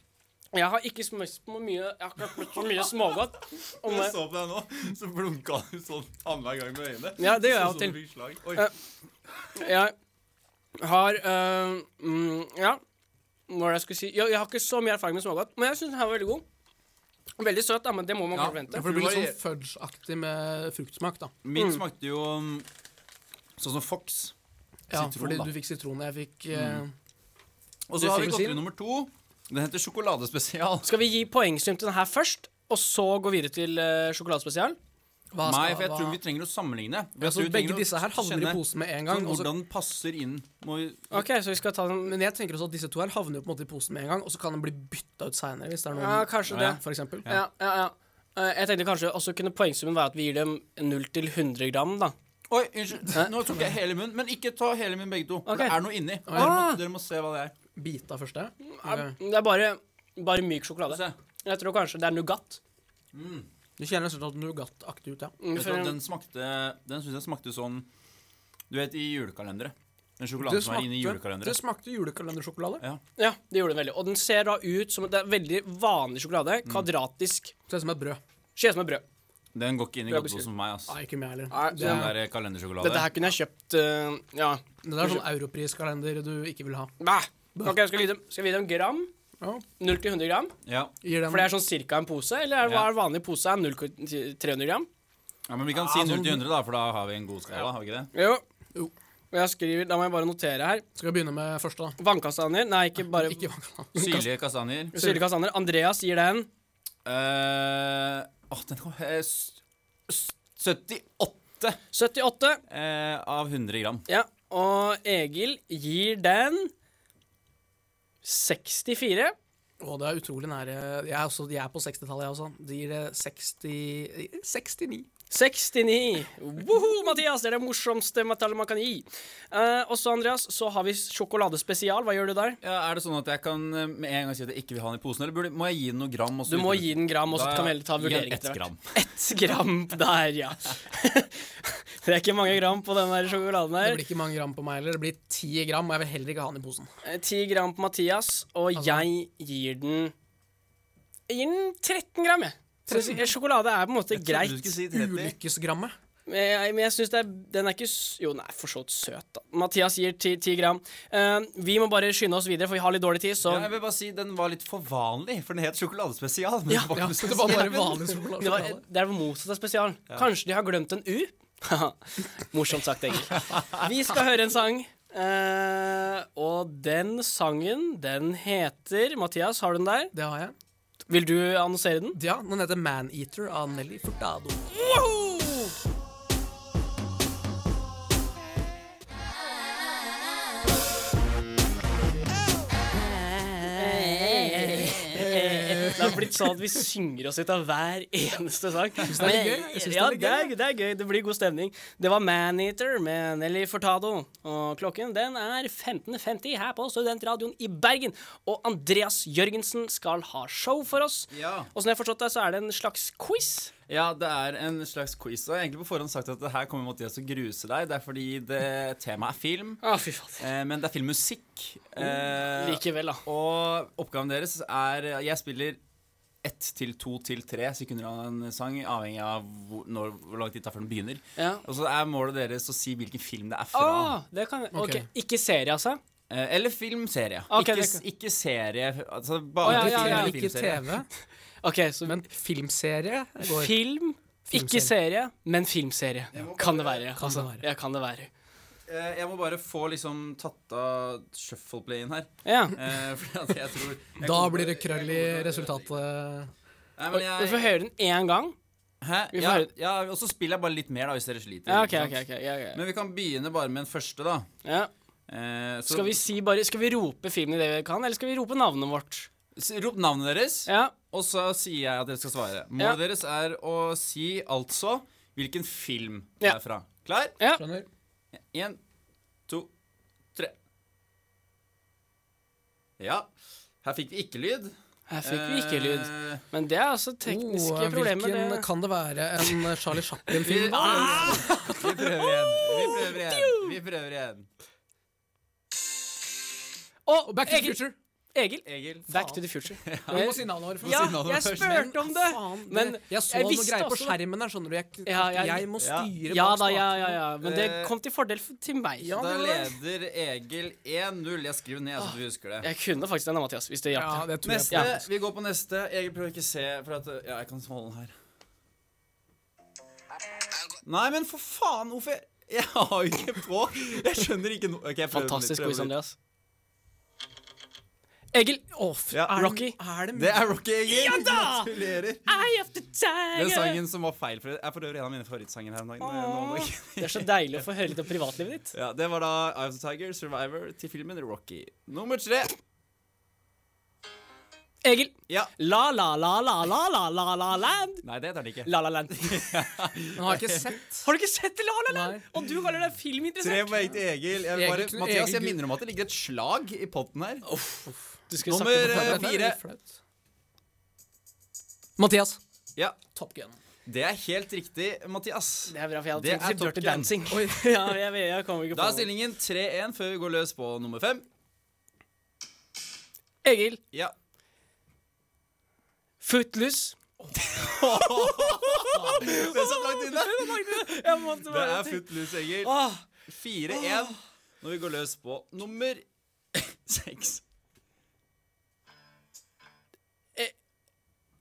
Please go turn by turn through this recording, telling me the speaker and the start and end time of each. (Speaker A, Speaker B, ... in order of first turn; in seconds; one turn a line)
Speaker A: 0.5-4.2
Speaker B: 3.8-8.7
Speaker A: 7.2-8.0
Speaker A: 9.6-9.9
Speaker A: 10.8-12.8
Speaker A: 13.5-16.4
Speaker A: 17.4-18.9
Speaker B: 18.3-19.4
Speaker C: 18.7-21.3
Speaker B: 21.4-22.7
Speaker A: 21.6-21.8
Speaker B: 23.6-24.3
Speaker C: 24.9-26.9
Speaker B: 24.9-25.5
Speaker B: 26.5-26.8
Speaker B: 27.9-30.9
Speaker C: 28.0-28.6
Speaker A: 30.8-34.8
Speaker C: 35.3-36.2
Speaker B: 35.4-41.2
Speaker C: 37.2-39.5
Speaker A: 41.1-42.1
Speaker C: 42.0-47.3
Speaker A: 46.0-52.1
Speaker B: 46.5-47.4
Speaker B: 52.5-57.5
Speaker A: 55.5-55.8
Speaker C: 56.3-56.6
Speaker A: 56.3-56.8
Speaker C: 57.8-59.1
Speaker A: 58.7-62.6
Speaker B: 60.9-61.1
Speaker B: 63.1-63.5
Speaker C: 63.8-65.3
Speaker A: 65.4-66.0
Speaker B: 65.5-67.9
Speaker B: 68.7-71.6
Speaker C: 70.4-72.8
Speaker A: 73.2-77.5
Speaker C: 77.7-78.2
Speaker A: 78.6-79.0
Speaker B: 79.5-80.9
Speaker A: 80.1-80.5
Speaker C: 80.9-82.1
Speaker A: 81.5-82.1
Speaker B: 81.8-83.1
Speaker A: 82.8-85.2
Speaker C: 84.8-86.9
Speaker A: 87.0-89.1
Speaker A: 89.8-90.5
Speaker B: 90.7-91.0
Speaker C: 91.0-91.5
Speaker A: 91.3-94.9
Speaker B: 95.5-98.1
Speaker C: 95.7-96.4
Speaker A: 98.1-98.4
Speaker A: 99.3-100.8
Speaker C: 101.0-102.0
Speaker A: 102.0-103.5
Speaker C: 103.0-104.2
Speaker B: 104.0-104.9
Speaker A: 104.9-106.5
Speaker C: 105.0-105.2
Speaker B: 107.0-111.8
Speaker A: 111.9-112.6
Speaker B: 112.7-114.0
Speaker A: 114.1-116.7
Speaker A: 118.2-119.3
Speaker C: 119.8-125.1
Speaker A: 125.3-132.6
Speaker B: 132.6-138.9
Speaker A: 136.5-144.0
Speaker C: 143.8-146.9
Speaker A: 147.0-150.1
Speaker C: 148.8-149.1
Speaker A: 151.3-154.7
Speaker C: 152.9-153.3
Speaker B: 154.1-155.3
Speaker C: 154.9-155.9
Speaker A: 156.3-163.7
Speaker B: 163.4-168.0
Speaker C: 166.9-168.8
Speaker A: 168.4-180.1
Speaker C: 180.1-180.6
Speaker A: 181.1-182.2
Speaker C: 182.2-185.5
Speaker A: 193.6-213.7
Speaker C: 195.0-196.4
Speaker C: 199.1-200.5
Speaker B: 211.3-211.7
Speaker B: 213.9-219.8
Speaker A: 219.8-220.4
Speaker B: 220.4-225.8
Speaker A: 222.0-223.2
Speaker B: 226.4-234.2
Speaker A: 231.4-231.6
Speaker A: 233.7-236.0
Speaker C: 234.7-235.1
Speaker B: 236.3-240.9
Speaker A: 237.5-238.0
Speaker A: 239.6-240.4
Speaker C: 239.6-241.1
Speaker A: 241.6-242.2
Speaker C: 242.1-243.8
Speaker A: 243.4-248.3
Speaker C: 244.5-244.9
Speaker B: 246.3-247.2
Speaker C: 247.2-247.7
Speaker B: 248.9-256.0
Speaker A: 252.4-252.8
Speaker C: 254.2-256.5
Speaker B: 257.0-257.7
Speaker A: 257.1-258.6
Speaker B: 259.0-262.2
Speaker A: 259.3-259.7
Speaker A: 261.7-262.8
Speaker B: 262.7-264.5
Speaker A: 264.6-264.9
Speaker B: 265.3-266.2
Speaker A: 265.9-269.3
Speaker B: 269.6-277.4
Speaker A: 270.7-270.9
Speaker C: 277.6-277.9
Speaker B: 278.3-278.8
Speaker B: 283.0-283.3
Speaker B: 283.8-286.4
Speaker A: 285.1-288.7
Speaker C: 287.2-291.9
Speaker A: 290.4-293.8
Speaker B: 290.4-294.5
Speaker C: 297.1-297.9
Speaker A: 297.4-297.8
Speaker A: 298.3-304.2
Speaker B: 298.7-301.9
Speaker C: 300.1-307.2
Speaker A: 305.1-305.7
Speaker B: 305.8-306.1
Speaker A: 306.3-309.1
Speaker B: 307.4-307.9
Speaker C: 309.0-309.8
Speaker B: 309.1-312.7
Speaker A: 312.6-314.9
Speaker C: 313.9-315.1
Speaker B: 314.4-318.1
Speaker B: 320.8-325.9
Speaker A: 325.1-326.1
Speaker A: 328.3-328.7
Speaker C: 328.7-330.5
Speaker B: 329.1-329.4
Speaker A: 329.4-329.8
Speaker B: 330.1-332.2
Speaker A: 330.9-331.7
Speaker A: 332.3-333.8
Speaker B: 333.3-337.6
Speaker A: 336.0-338.7
Speaker B: 338.7-342.6
Speaker A: 344.8-348.0
Speaker B: 348.0-350.8
Speaker A: 348.6-349.5
Speaker C: 350.1-351.1
Speaker A: 351.0-354.0
Speaker C: 351.9-352.3
Speaker B: 353.4-357.4
Speaker C: 354.5-355.6
Speaker A: 357.5-359.3
Speaker B: 358.4-359.6
Speaker C: 358.7-360.0
Speaker C: 362.0-362.4
Speaker C: 363.1-363.6
Speaker B: 363.9-367.2
Speaker A: 365.7-369.1
Speaker C: 367.3-367.9
Speaker B: 368.7-371.3
Speaker A: 373.4-373.8
Speaker A: 376.2-377.0
Speaker C: 377.2-377.7
Speaker B: 377.5-382.7
Speaker A: 378.8-382.1
Speaker A: 382.6-383.1
Speaker B: 383.3-387.4